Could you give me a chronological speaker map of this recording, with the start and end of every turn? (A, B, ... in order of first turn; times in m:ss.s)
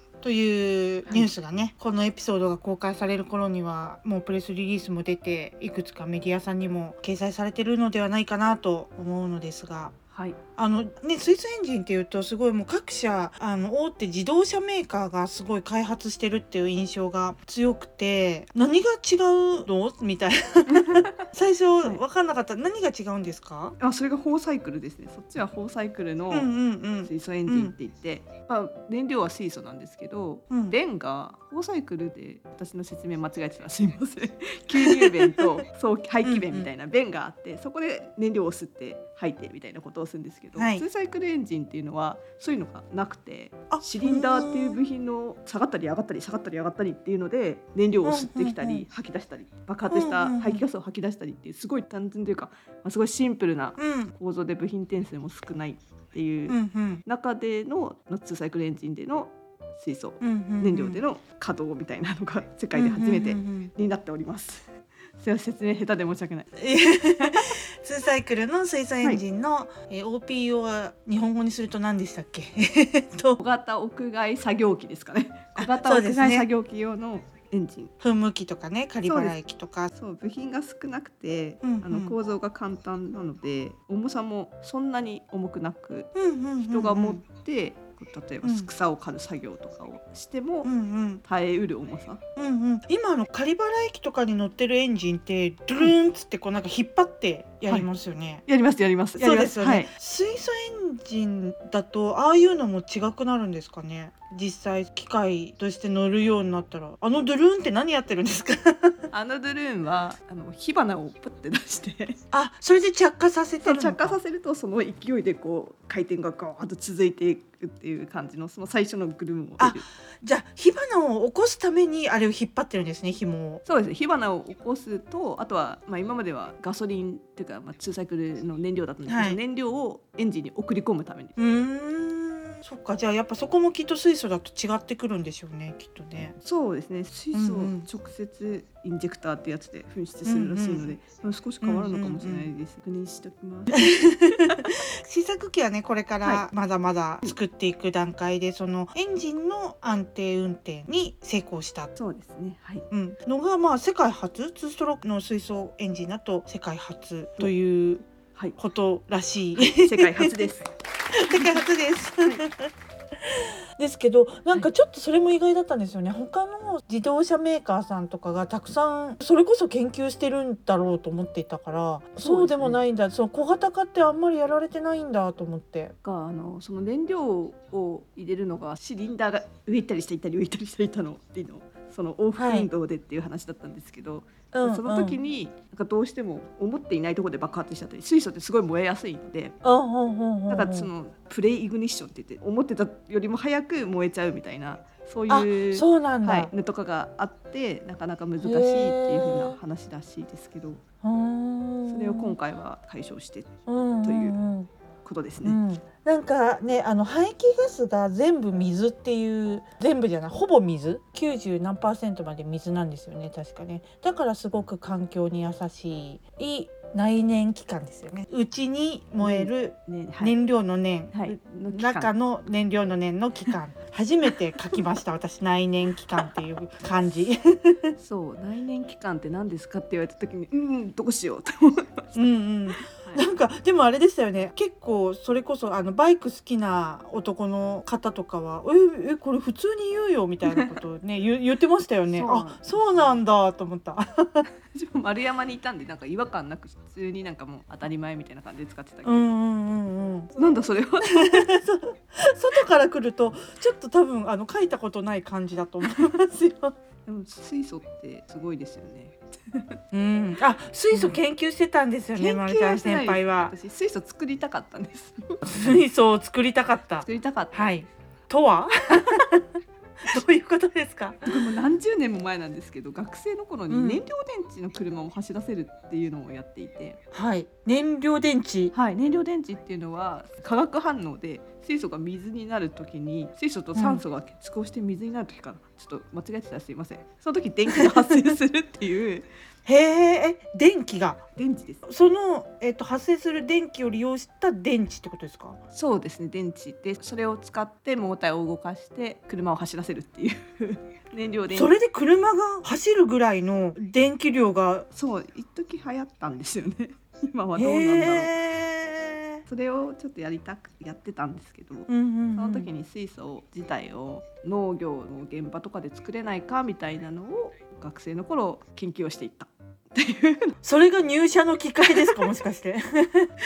0:00.2-0:10.0 A
0:01.1-0:01.3 B
0:10.1-0:10.4 B
0:10.6-0:23.8 A
0:20.8-0:21.1 B
0:23.8-0:26.5 B
0:26.3-0:27.7 A
0:27.0-1:06.5 B
0:30.5-0:30.8 A
0:34.7-0:35.6 A
0:36.2-0:36.7 A
0:40.6-0:40.8 A
0:43.7-0:44.8 A
0:48.0-0:48.9 A
0:49.9-0:50.6 A
0:53.8-0:54.1 A
0:56.5-0:57.0 A
1:00.2-1:01.0 A
1:02.7-1:03.7 A
1:06.6-1:13.4 A
1:13.4-1:17.9 B
1:15.6-1:16.5 A
1:18.0-1:19.9 A
1:19.1-1:19.4 B
1:19.9-1:26.1 B
1:21.6-1:22.2 A
1:26.2-1:27.2 A
1:26.7-1:30.7 B
1:28.4-1:28.7 A
1:30.6-1:31.2 A
1:31.2-1:32.2 B
1:32.4-1:38.4 A
1:38.5-1:39.9 B
1:39.2-1:49.1 A
1:49.1-1:52.2 B
1:52.3-1:54.2 A
1:53.6-1:59.8 B
1:59.6-2:03.6 A
2:03.6-2:11.4 B
2:09.1-2:09.4 A
2:11.4-2:16.4 A
2:16.4-2:24.7 B
2:17.3-2:17.9 A
2:20.2-2:20.9 A
2:21.6-2:22.5 A
2:23.8-2:31.9 A
2:32.0-2:32.9 B
2:32.9-2:38.1 A
2:38.6-2:40.5 A
2:39.6-2:40.7 B
2:41.1-2:42.7 A
2:41.3-2:41.6 B
2:43.3-2:56.0 A
2:52.2-2:52.8 B
2:56.0-3:09.6 B
3:02.4-3:02.7 A
3:04.5-3:05.2 A
3:09.6-3:10.9 A
3:10.5-3:20.8 B
3:15.3-3:16.5 A
3:18.4-3:19.6 A
3:21.0-3:22.4 A
3:21.9-3:23.5 B
3:23.7-3:24.7 A
3:24.0-3:24.4 B
3:25.0-3:25.6 B
3:25.4-3:47.9 A
3:39.2-3:40.4 B
3:41.1-3:42.1 B
3:48.0-3:52.2 B
3:52.2-4:04.5 A
3:52.8-3:53.2 B
4:02.2-4:03.2 B
4:04.7-4:09.3 B
4:09.0-4:16.8 A
4:10.4-4:11.5 B
4:17.1-4:19.8 B
4:19.9-4:23.5 A
4:20.9-4:21.2 B
4:22.2-4:25.7 B
4:25.5-4:29.4 A
4:27.0-4:27.7 B
4:30.1-4:31.5 A
4:31.3-4:37.0 B
4:33.7-4:34.0 A
4:37.1-4:38.7 A
4:38.7-4:49.3 B
4:43.7-4:44.0 A
4:49.7-4:51.2 A
4:51.4-4:51.8 B
4:51.8-4:55.6 A
4:55.7-5:01.7 B
5:01.5-5:04.9 A
5:04.9-5:08.3 B
5:07.6-5:09.4 A
5:09.5-5:20.5 B
5:11.9-5:12.7 A
5:20.6-5:23.3 A